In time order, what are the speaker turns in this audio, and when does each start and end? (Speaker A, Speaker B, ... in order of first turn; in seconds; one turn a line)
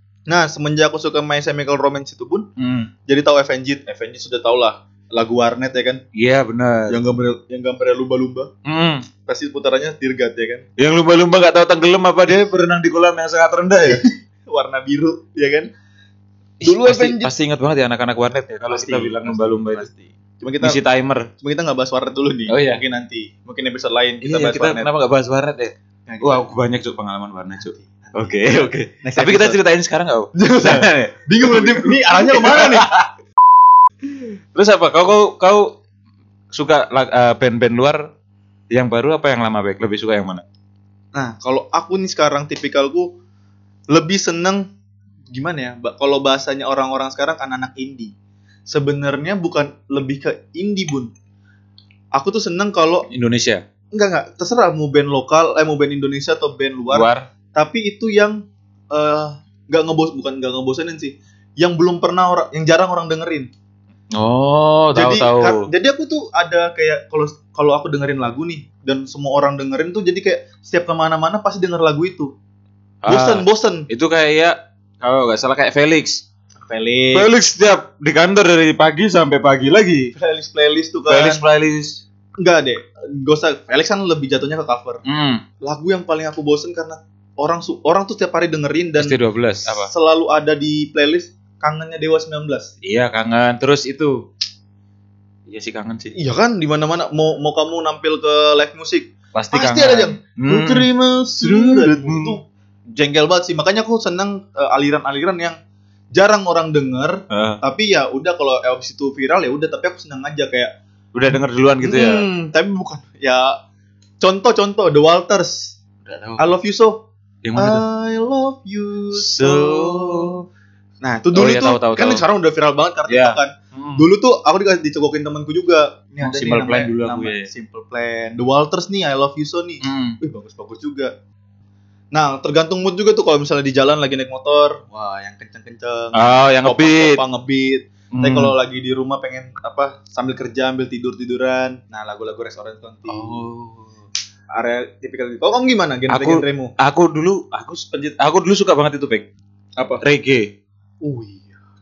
Speaker A: 0.3-2.5
Speaker B: 2.6-2.9
Speaker A: 3.1-6.0
Speaker B: 6.2-7.0
Speaker A: 6.9-8.5
Speaker B: 8.7-9.1
Speaker A: 9.3-10.7
Speaker B: 10.8-14.0
Speaker A: 13.8-15.7
Speaker B: 16.6-19.9
Speaker A: 16.6-17.3
Speaker A: 18.7-20.8
Speaker B: 20.6-21.3
Speaker A: 21.4-24.9
Speaker B: 22.5-22.8
Speaker B: 24.2-33.1
Speaker A: 26.1-26.5
Speaker A: 27.7-29.6
Speaker A: 30.4-32.9
Speaker B: 34.5-35.8
Speaker B: 36.5-38.1
Speaker B: 38.7-40.4
Speaker A: 41.1-43.1
Speaker A: 43.9-44.6
Speaker A: 45.3-48.1
Speaker A: 48.7-51.1
Speaker A: 52.1-53.1
Speaker B: 53.1-53.6
Speaker A: 53.9-58.4
Speaker B: 56.9-57.3
Speaker A: 58.9-63.5
Speaker B: 64.2-65.7
Speaker A: 65.0-72.3
Speaker B: 73.0-76.2
Speaker A: 73.1-73.9
Speaker A: 76.7-77.3
Speaker B: 77.1-80.1
Speaker A: 80.2-81.4
Speaker B: 81.1-82.0
Speaker A: 82.4-85.0
Speaker B: 85.0-85.4
Speaker A: 85.6-92.7
Speaker B: 89.0-89.9
Speaker B: 92.8-94.2
Speaker B: 95.5-96.1
Speaker A: 96.1-102.4
Speaker B: 99.3-100.9
Speaker B: 101.4-102.4
Speaker A: 103.0-105.6
Speaker A: 106.2-110.7
Speaker B: 107.3-107.6
Speaker B: 111.1-112.2
Speaker A: 111.8-113.5
Speaker A: 114.2-115.8
Speaker B: 116.0-116.4
Speaker A: 116.4-117.0
Speaker B: 117.4-117.8
Speaker A: 117.6-120.3
Speaker B: 119.1-120.4
Speaker A: 121.0-131.1
Speaker B: 121.3-122.2
Speaker B: 123.1-124.0
Speaker B: 126.2-127.5
Speaker B: 129.8-130.2
Speaker A: 132.1-143.4
Speaker B: 136.2-137.2
Speaker B: 138.2-138.5
Speaker B: 143.1-144.0
Speaker A: 144.5-146.7
Speaker B: 146.1-149.3
Speaker A: 149.8-150.0
Speaker B: 150.0-150.5
Speaker A: 151.0-151.6